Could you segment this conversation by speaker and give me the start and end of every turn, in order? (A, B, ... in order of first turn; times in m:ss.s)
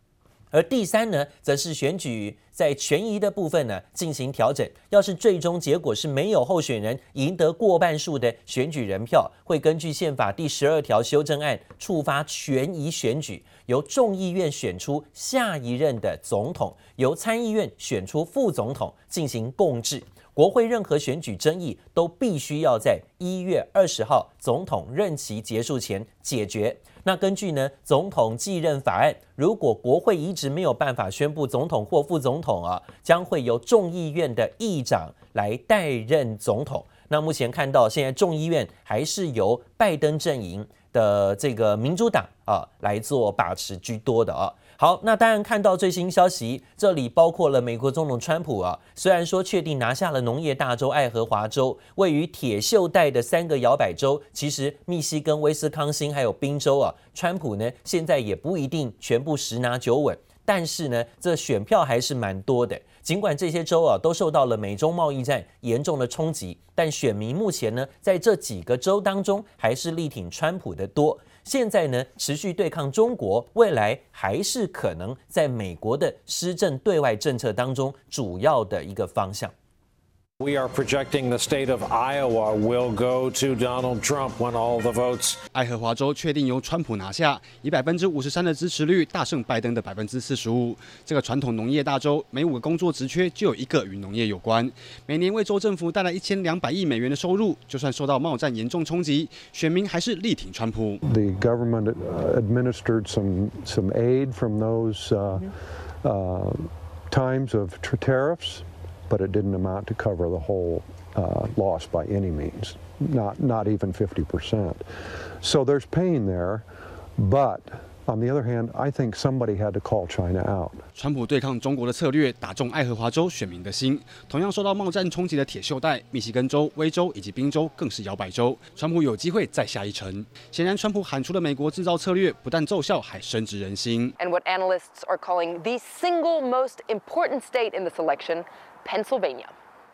0:00.5-1:19.5 A
1:20.4-1:25.4 B
1:25.5-1:41.0 C
1:41.0-1:54.8 D
1:55.4-1:56.6 D
1:57.2-2:00.8 D
2:00.9-2:14.1 C
2:14.2-2:19.5 E